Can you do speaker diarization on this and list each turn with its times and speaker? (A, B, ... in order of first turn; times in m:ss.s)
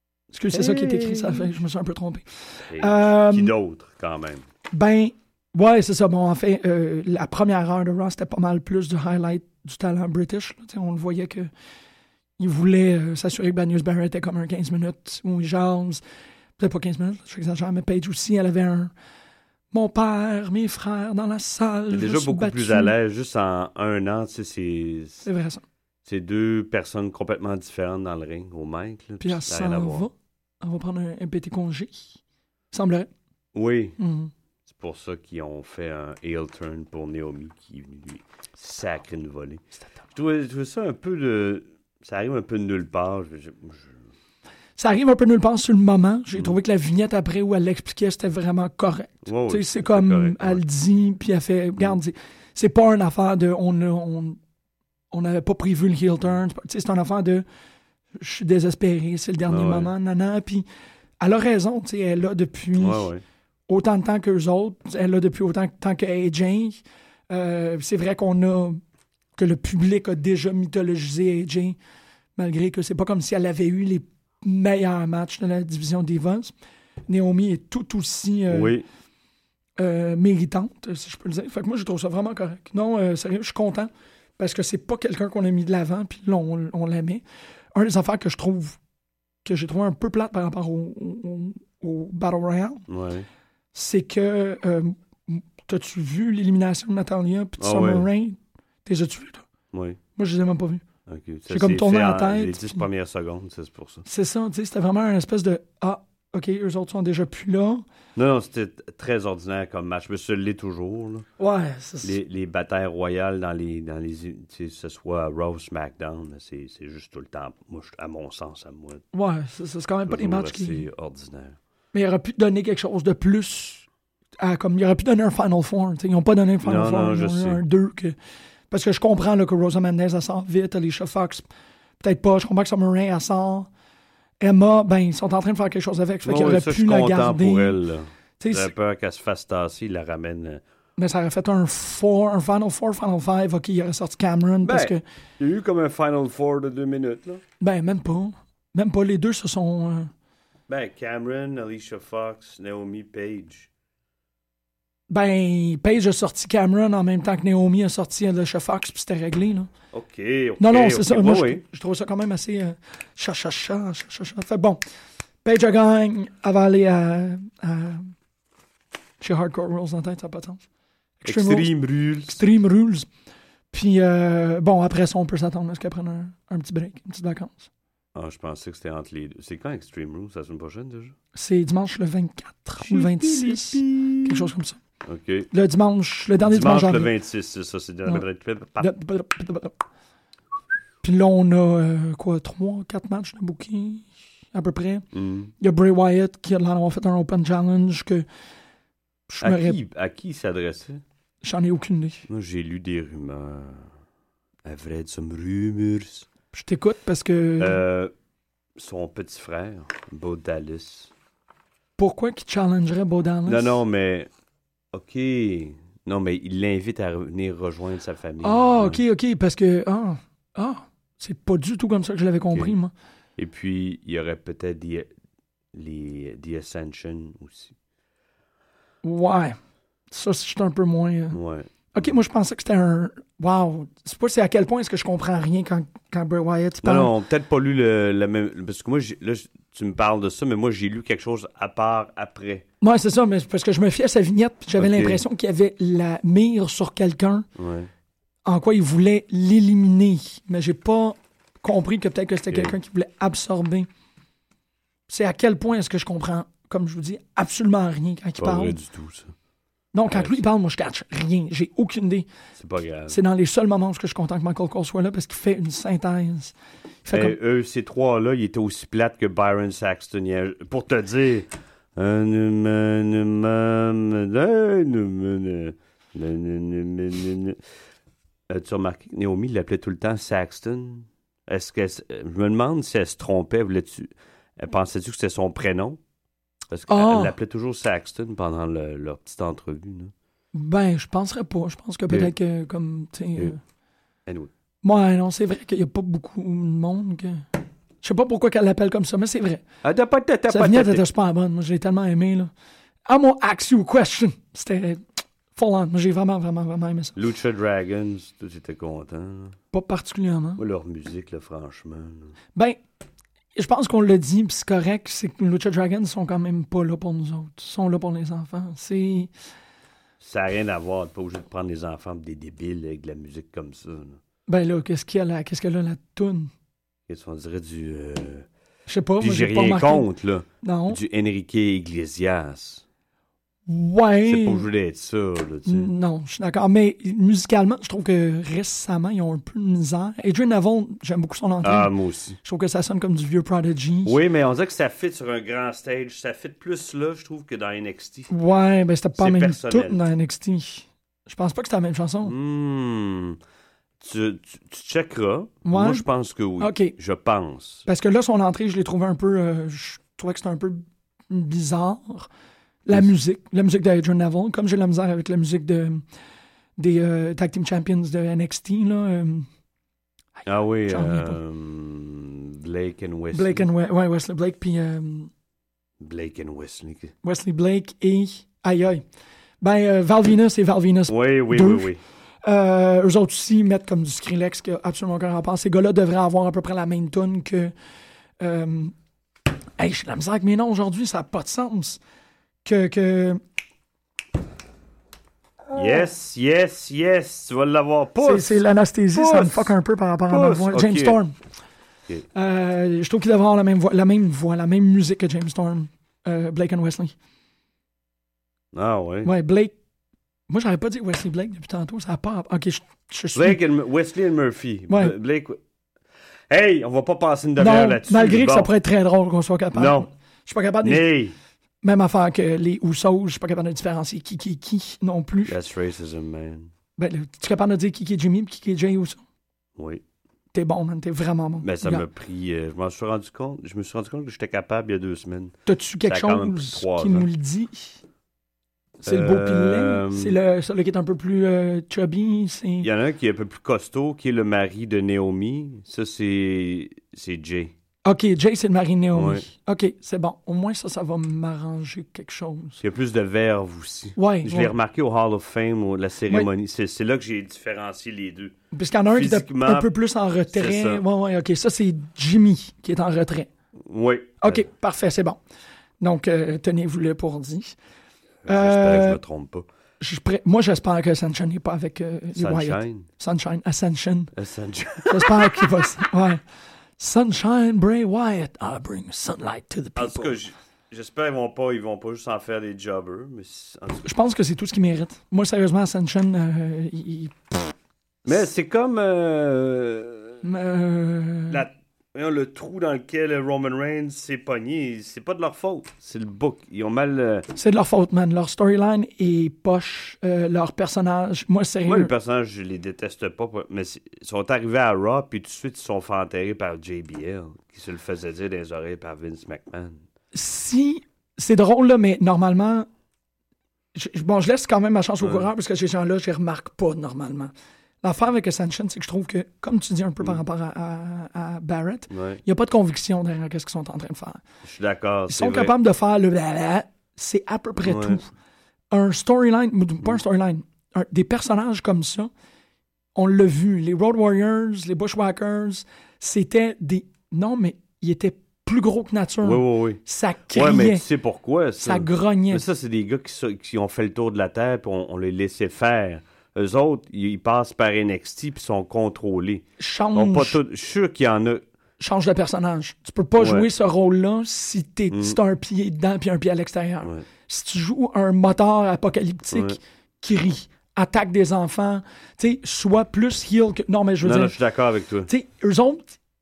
0:00.3-0:03.5 A
0:00.5-0:01.5 B
0:02.7-0:04.4 B
0:04.7-0:11.5 A
0:12.4-0:16.0 A
0:16.6-0:18.9 A
0:19.7-0:22.9 A
0:21.9-0:25.3 B
0:25.2-0:25.6 A
0:26.0-0:30.1 B
0:29.2-0:32.2 A
0:32.7-0:33.1 A
0:33.6-0:34.0 B
0:34.0-0:34.3 A
0:34.7-0:39.6 B
0:40.1-0:43.9 B
0:44.8-0:54.4 A
0:49.2-0:50.6 B
0:55.1-0:57.4 A
0:58.2-1:00.6 A
0:59.5-0:59.9 B
1:01.2-1:03.1 A
1:02.8-1:03.2 B
1:03.7-1:08.8 A
1:09.4-1:11.8 A
1:12.4-1:16.5 A
1:17.1-1:18.7 A
1:18.5-1:18.8 B
1:19.8-1:27.2 A
1:27.7-1:28.8 A
1:29.4-1:32.8 A
1:32.9-1:33.3 B
1:33.7-1:39.5 A
1:37.6-1:38.1 B
1:39.7-1:40.0 B
1:40.2-1:40.8 A
1:41.1-1:44.0 B
1:41.5-1:42.8 A
1:44.1-1:47.8 A
1:48.2-1:51.3 B
1:51.4-1:52.2 A
1:52.0-1:59.0 B
1:59.1-2:00.8 A
2:00.1-2:01.6 B
2:01.9-2:03.9 A
2:04.4-2:08.2 A
2:06.6-2:07.6 B
2:08.7-2:11.5 A
2:12.0-2:13.7 A
2:14.4-2:17.8 A
2:16.2-2:20.6 B
2:18.4-2:18.7 A
2:21.0-2:25.0 A
2:24.6-2:27.4 B
2:27.6-2:30.1 A
2:30.7-2:33.7 B
2:35.1-2:39.7 A
2:39.9-2:41.6 B
2:40.6-2:44.8 A
2:45.4-2:48.1 A
2:49.2-2:50.6 A
2:51.2-2:51.7 A
2:51.2-2:52.4 B
2:52.3-2:53.1 A
2:53.7-2:57.7 A
2:58.2-3:01.2 B
3:01.4-3:04.8 A
3:02.8-3:04.5 B
3:05.0-3:05.5 B
3:05.5-3:07.1 A
3:06.4-3:08.9 B
3:08.8-3:09.8 A
3:11.0-3:15.0 A
3:15.1-3:15.5 B
3:15.6-3:18.3 A
3:19.3-3:19.8 A
3:19.4-3:21.0 B
3:21.4-3:22.3 A
3:22.3-3:23.9 B
3:24.6-3:26.3 B
3:26.5-3:27.8 A
3:27.6-3:28.1 B
3:28.8-3:31.1 B
3:32.0-3:33.8 A
3:33.5-3:34.3 B
3:34.9-3:39.0 B
3:38.4-3:42.9 A
3:43.4-3:45.1 B
3:45.7-3:47.8 B
3:49.0-3:49.6 A
3:50.1-3:51.4 A
3:51.3-3:52.1 B
3:51.9-3:57.1 A
3:56.8-4:02.6 B
4:02.8-4:07.5 A
4:04.8-4:05.2 B
4:07.6-4:07.9 B
4:08.4-4:13.9 A
4:12.5-4:12.8 B
4:15.1-4:18.8 A
4:18.4-4:19.4 B
4:19.9-4:22.3 A
4:20.1-4:20.5 B
4:22.6-4:23.2 B
4:23.1-4:26.5 A
4:27.0-4:27.4 A
4:27.1-4:37.6 B
4:38.5-4:46.0 B
4:46.7-4:50.1 B
4:46.9-4:47.3 A
4:50.5-4:53.6 A
4:54.8-4:57.4 A
4:58.0-4:59.6 A
4:59.8-5:01.0 B
5:00.5-5:02.5 A
5:03.1-5:05.0 A
5:05.6-5:07.2 A
5:07.2-5:09.6 B
5:09.7-5:10.6 A
5:10.6-5:12.4 B
5:13.6-5:19.3 A
5:20.2-5:24.2 B
5:24.5-5:26.5 A
5:27.1-5:28.5 B
5:28.9-5:30.1 A
5:29.2-5:32.8 B
5:30.6-5:31.0 A
5:33.7-5:34.6 A
5:34.3-5:35.9 B
5:35.7-5:41.9 A
5:41.6-5:42.4 B
5:42.4-5:44.2 A
5:44.0-5:48.3 B
5:48.3-5:52.3 A
5:49.2-5:50.0 B
5:52.2-5:53.4 B
5:54.0-5:57.9 B
5:55.6-5:56.1 A
5:56.6-5:57.0 A
5:57.9-6:02.3 A
6:02.9-6:06.0 A
6:06.8-6:09.5 A
6:10.4-6:11.4 A
6:10.4-6:13.7 B
6:13.3-6:15.3 A
6:16.0-6:17.1 B
6:17.2-6:19.0 A
6:19.6-6:21.9 A
6:21.1-6:22.0 B
6:22.4-6:27.7 A
6:28.4-6:28.9 A
6:29.8-6:32.0 A
6:32.6-6:33.4 A
6:35.7-6:36.1 A
6:35.7-6:39.8 B
6:38.2-6:41.4 A
6:40.3-6:41.2 B
6:42.3-6:47.2 A
6:48.7-6:49.3 B
6:49.2-6:49.8 A
6:50.5-6:53.6 A
6:53.4-6:55.6 B
6:56.5-6:58.7 B
6:57.6-7:01.1 A
6:59.7-7:00.1 B
7:00.8-7:01.4 B
7:01.8-7:05.6 A
7:05.5-7:06.7 B
7:07.0-7:09.2 A
7:09.8-7:10.0 B
7:10.5-7:12.0 A
7:11.6-7:17.3 B
7:15.7-7:18.0 A
7:19.0-7:22.9 A
7:19.0-7:20.4 B
7:22.8-7:27.7 B
7:28.0-7:32.8 A
7:29.1-7:29.5 B
7:32.8-7:38.6 B
7:34.2-7:34.7 A
7:38.7-7:43.5 A
7:39.1-7:39.9 B
7:40.5-7:41.0 B
7:43.9-7:44.6 B
7:44.4-7:45.4 A
7:46.0-7:47.8 A
7:48.4-7:49.7 B
7:48.5-7:49.2 A
7:50.0-7:54.3 A
7:52.4-7:53.1 B
7:54.4-7:55.9 B
7:55.1-7:56.4 A
7:57.0-8:00.4 A
8:00.0-8:04.1 B
8:04.0-8:07.7 A
8:08.2-8:10.4 B
8:10.4-8:11.6 A
8:11.5-8:17.5 B
8:17.6-8:22.1 A
8:21.9-8:30.0 B
8:30.3-8:32.9 A
8:34.0-8:44.4 A
8:35.2-8:35.5 B
8:42.1-8:42.4 B
8:44.6-8:45.8 B
8:45.3-8:48.3 A
8:47.8-8:48.2 B
8:48.9-8:52.3 A
8:53.2-9:01.0 A
8:59.4-9:00.0 B
9:00.5-9:11.6 B
9:01.8-9:02.6 A
9:09.8-9:10.6 A
9:12.0-9:24.5 A
9:13.4-9:13.7 B
9:15.1-9:15.4 B
9:19.5-9:19.8 B
9:24.2-9:25.3 B
9:25.3-9:26.2 A